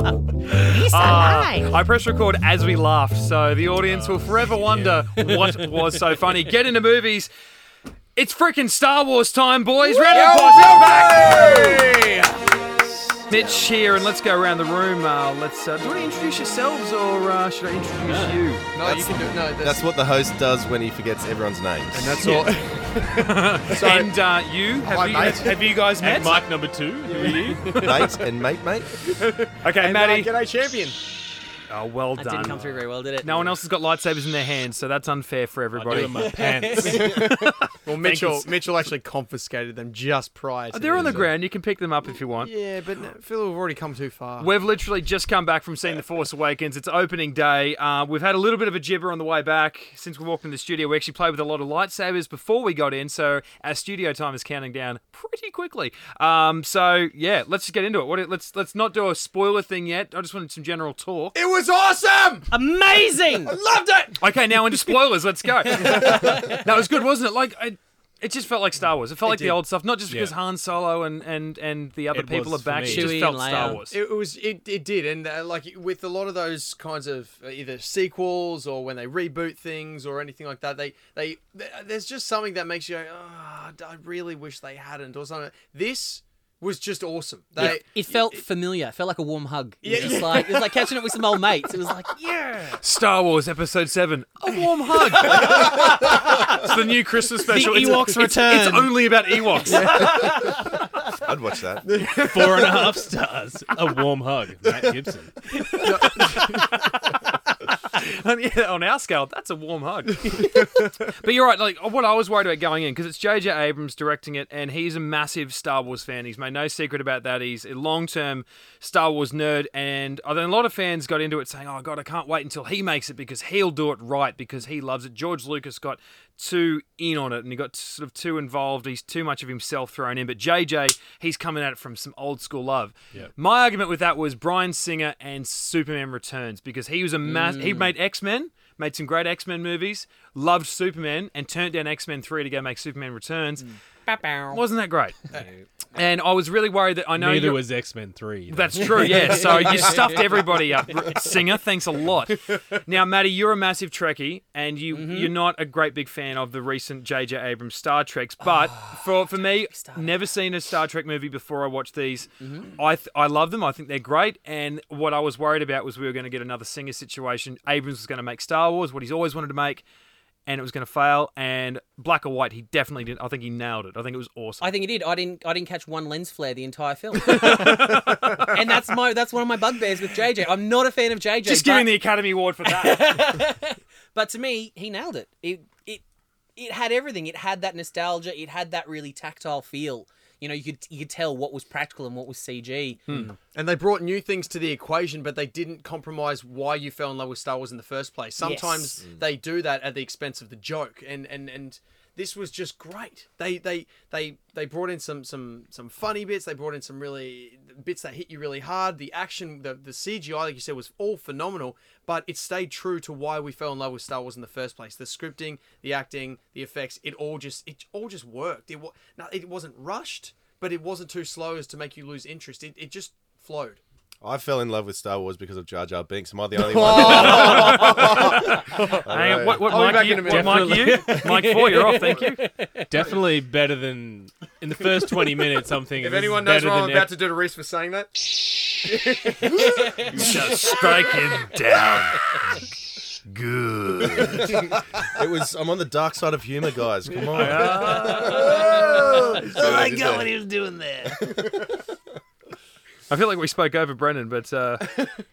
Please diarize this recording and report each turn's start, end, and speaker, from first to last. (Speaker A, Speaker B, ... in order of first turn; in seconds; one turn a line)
Speaker A: 0.5-7.3
Speaker B: 0.6-1.7
Speaker C: 3.8-5.7
Speaker A: 8.2-11.6
Speaker D: 10.1-12.6
Speaker B: 10.1-11.9
Speaker C: 12.7-13.3
Speaker A: 13.3-18.7
Speaker D: 13.3-13.7
Speaker C: 18.0-18.5
Speaker D: 18.7-19.8
Speaker E: 18.8-22.3
Speaker D: 22.0-24.2
Speaker A: 22.2-22.5
Speaker A: 23.1-26.4
Speaker D: 24.8-25.7
Speaker C: 26.0-28.0
Speaker D: 27.1-28.3
Speaker E: 27.8-29.1
Speaker D: 29.0-31.0
Speaker A: 29.6-30.3
Speaker A: 31.7-32.6
Speaker B: 32.2-33.5
Speaker C: 32.5-32.8
Speaker A: 33.2-38.6
Speaker C: 35.7-37.2
Speaker B: 36.0-37.1
Speaker D: 36.8-41.3
Speaker A: 40.7-42.5
Speaker E: 41.0-41.3
Speaker D: 42.4-44.5
Speaker A: 44.4-61.4
Speaker D: 61.3-62.5
Speaker B: 62.5-63.5
Speaker D: 63.4-64.9
Speaker A: 64.2-74.0
Speaker B: 65.7-66.7
Speaker D: 65.7-66.7
Speaker D: 69.3-69.6
Speaker C: 70.1-70.4
Speaker C: 72.1-73.3
Speaker B: 72.8-73.8
Speaker D: 73.9-88.3
Speaker B: 87.6-92.8
Speaker D: 89.8-91.2
Speaker A: 92.8-100.2
Speaker D: 95.1-96.5
Speaker B: 95.8-96.5
Speaker B: 97.5-99.0
Speaker D: 97.6-98.0
Speaker D: 99.6-100.6
Speaker B: 99.7-100.5
Speaker E: 101.1-101.9
Speaker D: 101.8-103.0
Speaker C: 102.2-105.4
Speaker A: 105.6-143.8
Speaker D: 105.8-106.8
Speaker B: 137.2-137.9
Speaker B: 144.1-144.6
Speaker A: 144.5-145.3
Speaker B: 145.3-145.7
Speaker A: 145.9-147.6
Speaker C: 147.2-150.0
Speaker A: 148.5-169.8
Speaker B: 149.2-150.4
Speaker B: 154.9-155.3
Speaker B: 158.7-160.2
Speaker B: 162.4-162.7
Speaker A: 170.5-174.7
Speaker B: 174.6-181.9
Speaker A: 177.2-178.7
Speaker A: 181.4-183.4
Speaker B: 182.6-186.0
Speaker B: 186.6-193.4
Speaker D: 193.5-223.8
Speaker B: 198.4-199.0
Speaker E: 224.2-229.7
Speaker D: 226.6-229.0
Speaker A: 226.8-232.4
Speaker D: 229.6-231.2
Speaker C: 230.2-232.0
Speaker B: 231.0-232.9
Speaker D: 231.9-232.3
Speaker C: 232.8-237.2
Speaker D: 235.9-240.7
Speaker B: 239.4-240.8
Speaker A: 240.1-242.7
Speaker A: 243.3-244.7
Speaker E: 244.1-250.3
Speaker A: 247.3-250.3
Speaker D: 247.5-247.8
Speaker C: 247.9-248.7
Speaker B: 248.3-248.6
Speaker D: 248.4-249.4
Speaker C: 249.6-250.7
Speaker A: 253.1-254.9